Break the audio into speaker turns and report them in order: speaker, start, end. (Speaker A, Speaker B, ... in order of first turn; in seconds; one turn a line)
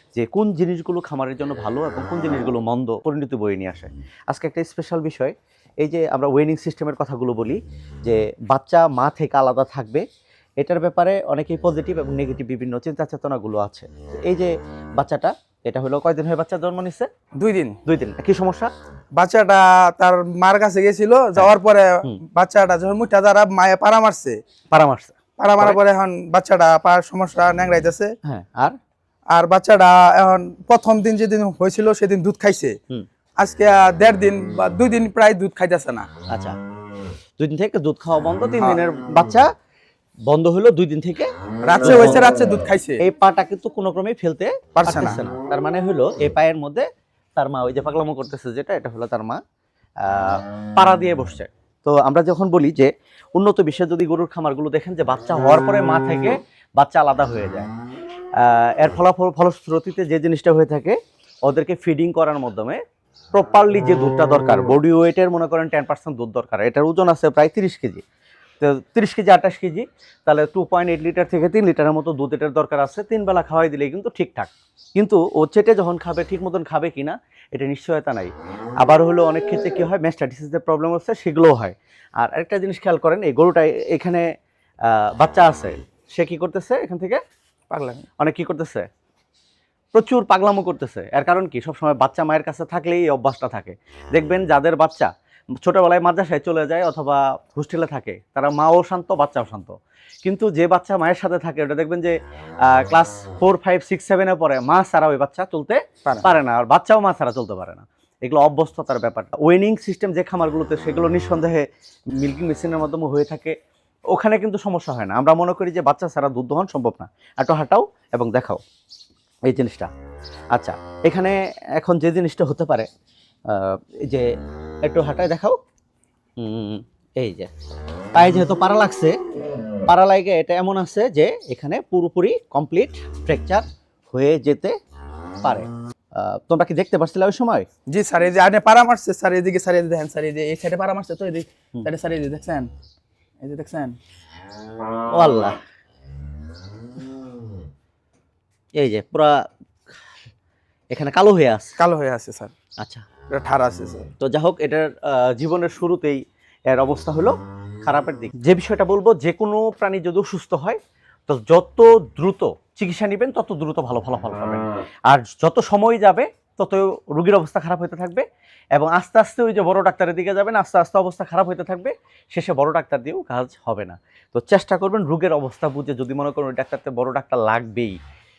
Speaker A: 0.1-10.0
Speaker A: 10.6-17.1
Speaker B: 17.4-17.8
Speaker A: 17.9-18.7
Speaker B: 19.1-24.4
Speaker A: 24.7-25.8
Speaker B: 25.4-28.1
Speaker A: 28.2-28.8
Speaker B: 29.3-32.8
Speaker B: 33.4-36.1
Speaker A: 36.3-36.6
Speaker A: 37.4-39.5
Speaker A: 40.3-41.3
Speaker B: 41.6-43.0
Speaker A: 41.8-42.3
Speaker A: 43.0-49.4
Speaker B: 44.8-45.2
Speaker A: 50.0-57.7
Speaker A: 58.4-62.8
Speaker A: 63.3-68.0
Speaker A: 68.6-84.2
Speaker A: 84.8-87.2
Speaker B: 87.7-88.0
Speaker A: 88.2-88.9
Speaker A: 89.9-95.1
Speaker A: 95.6-111.7
Speaker A: 112.2-113.5
Speaker A: 114.1-118.6
Speaker A: 119.5-119.9
Speaker A: 120.5-122.9
Speaker A: 123.5-124.3
Speaker A: 124.8-125.5
Speaker A: 126.4-127.5
Speaker A: 128.1-129.2
Speaker A: 129.8-134.7
Speaker A: 135.4-137.7
Speaker B: 137.9-142.7
Speaker B: 143.4-143.9
Speaker A: 145.1-145.6
Speaker A: 148.8-149.4
Speaker A: 150.9-151.8
Speaker B: 151.8-152.5
Speaker A: 152.8-153.0
Speaker B: 153.3-154.1
Speaker A: 154.2-168.2
Speaker A: 168.8-178.0